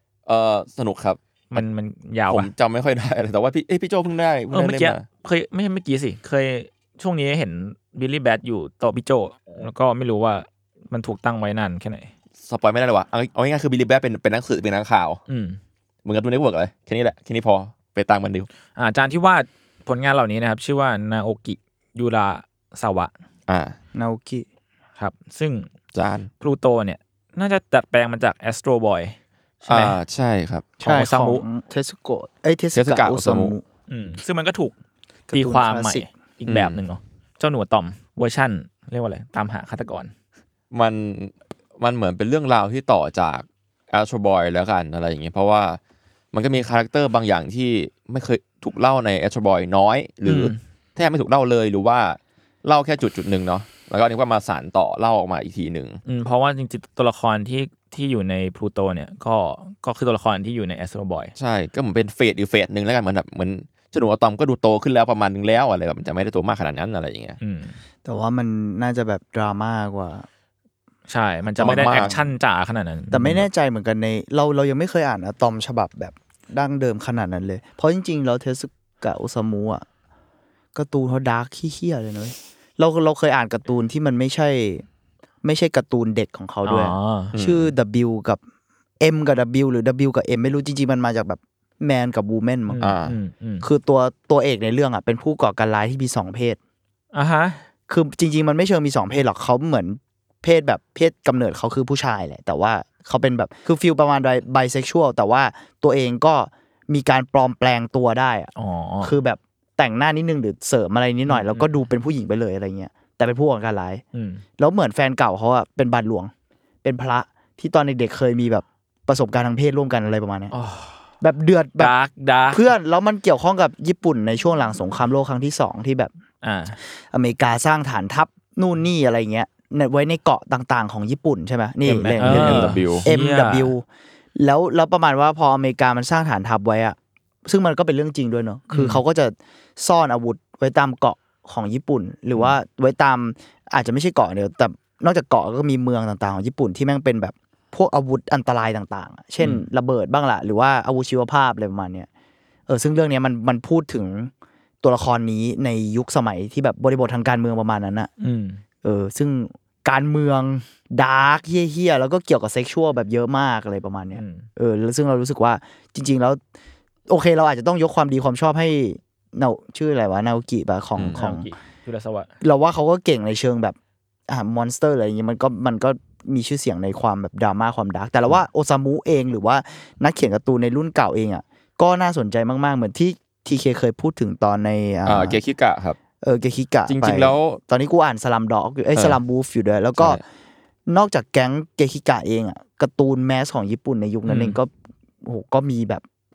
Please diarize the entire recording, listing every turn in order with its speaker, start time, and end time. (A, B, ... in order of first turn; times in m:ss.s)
0:00.2-0:01.6 A
0:01.5-0:02.5 B
0:02.3-0:05.0 A
0:04.5-0:12.1 B
0:12.4-0:15.2 A
0:15.3-0:15.6 B
0:16.0-0:18.5 A
0:18.8-0:23.1 B
0:23.5-0:23.7 A
0:23.9-0:24.5 C
0:25.0-0:25.7 B
0:25.9-0:26.3 A
0:26.4-0:30.0 B
0:29.7-0:30.7 A
0:30.8-0:33.6 C
0:30.8-0:31.4 B
0:32.7-0:33.5 A
0:33.9-0:34.7 B
0:35.3-0:36.1 C
0:35.3-0:40.1 B
0:36.5-0:36.8 A
0:40.7-0:45.8 A
0:46.3-0:56.0 A
0:50.2-0:50.6 B
0:56.0-1:01.3 B
1:01.4-1:07.4 A
1:07.4-1:07.8 B
1:08.0-1:10.3 C
1:11.1-1:13.5 B
1:11.6-1:12.1 C
1:11.6-1:12.2 A
1:13.1-1:19.8 C
1:20.7-1:24.8 C
1:25.4-1:28.4 C
1:26.6-1:27.3 B
1:27.3-1:27.7 A
1:29.0-1:32.8 C
1:32.7-1:33.7 B
1:32.8-1:33.1 A
1:33.6-1:36.6 C
1:37.1-1:37.6 B
1:37.9-1:48.5 C
1:48.6-1:49.1 B
1:49.0-1:54.0 C
1:51.3-1:51.8 B
1:54.1-1:54.4 B
1:54.6-1:56.3 C
1:56.8-2:00.5 C
2:00.5-2:01.0 B
2:01.2-2:01.9 C
2:01.8-2:02.6 B
2:02.5-2:06.1 C
2:06.4-2:06.8 B
2:07.1-2:32.1 C
2:11.8-2:13.7 B
2:12.2-2:13.0 A
2:18.7-2:19.0 B
2:29.4-2:29.6 B
2:32.7-2:38.1 C
2:38.2-2:38.6 B
2:38.8-2:46.4 C
2:44.1-2:44.5 B
2:47.1-2:51.5 C
2:51.1-2:52.3 B
2:52.4-2:53.8 C
2:54.3-3:05.4 C
3:05.0-3:06.0 A
3:06.2-3:10.2 C
3:06.9-3:07.6 A
3:10.9-3:16.0 C
3:14.2-3:14.6 B